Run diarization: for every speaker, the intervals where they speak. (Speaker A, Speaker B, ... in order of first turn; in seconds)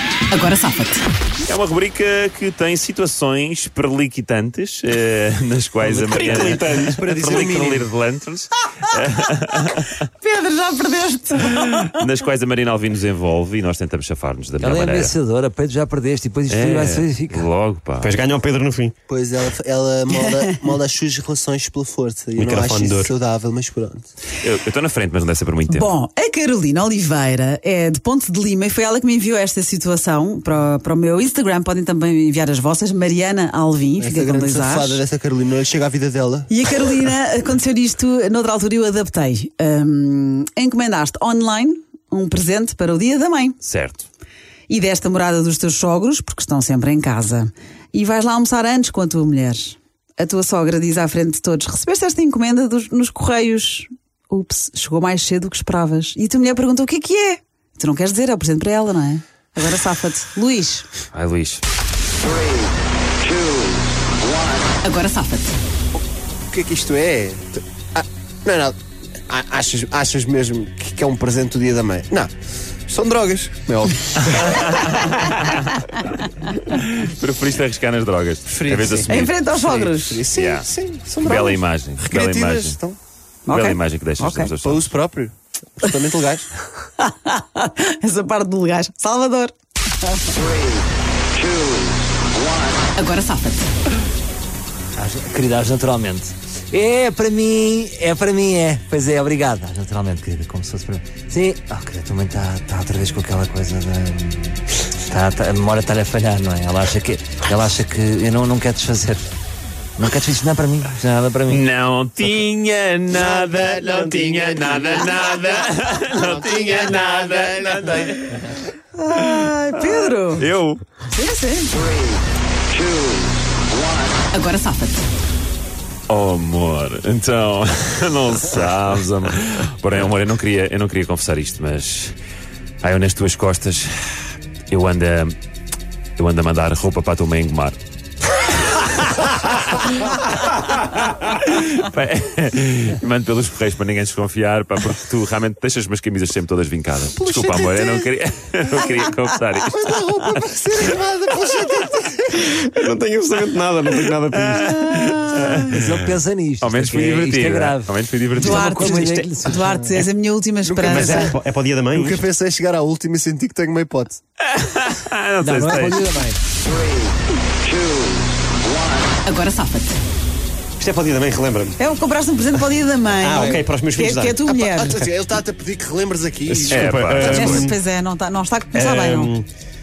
Speaker A: 0.3-1.0, 10.2-12.0, 20.1-20.6, 25.7-35.0, 36.5-43.6, 44.7-60.9, 64.8-65.6, 79.1-80.2, 83.5-84.5, 87.0-90.3, 92.9-93.7, 119.0-120.5, 121.0-121.7, 124.3-125.1, 154.9-155.6, 158.3-161.3, 169.2-170.0, 171.8-175.0, 177.3-179.3
Speaker B: 1.4-10.0, 11.9-15.2, 16.5-18.1, 24.4-25.9, 43.6-44.1, 61.1-61.6, 74.3-76.0, 76.5-79.3, 80.3-80.7, 81.2-82.8, 83.5-84.9, 111.5-118.6, 119.1-120.8, 126.1-132.2, 132.8-135.3, 136.2-137.8, 138.6-151.0, 154.3-158.8, 164.4-166.1, 176.6-177.7
Speaker C: 5.8-7.8, 18.0-18.9, 22.4-23.1, 113.8-114.7, 152.3-154.8, 158.8-159.5, 160.8-162.2, 170.8-171.8, 173.2-174.4, 176.5-177.7, 178.7-179.4
Speaker D: 6.1-6.4, 14.6-17.4, 95.0-109.3, 110.0-111.6, 155.7-159.8, 165.4-166.4
Speaker E: 7.0-7.8, 19.1-24.1, 34.0-36.5, 66.5-68.8, 69.3-72.3, 72.9-74.7, 78.5-83.0, 84.6-86.5, 147.1-148.1, 148.7-152.4, 160.7-161.4, 161.9-164.2, 174.4-176.9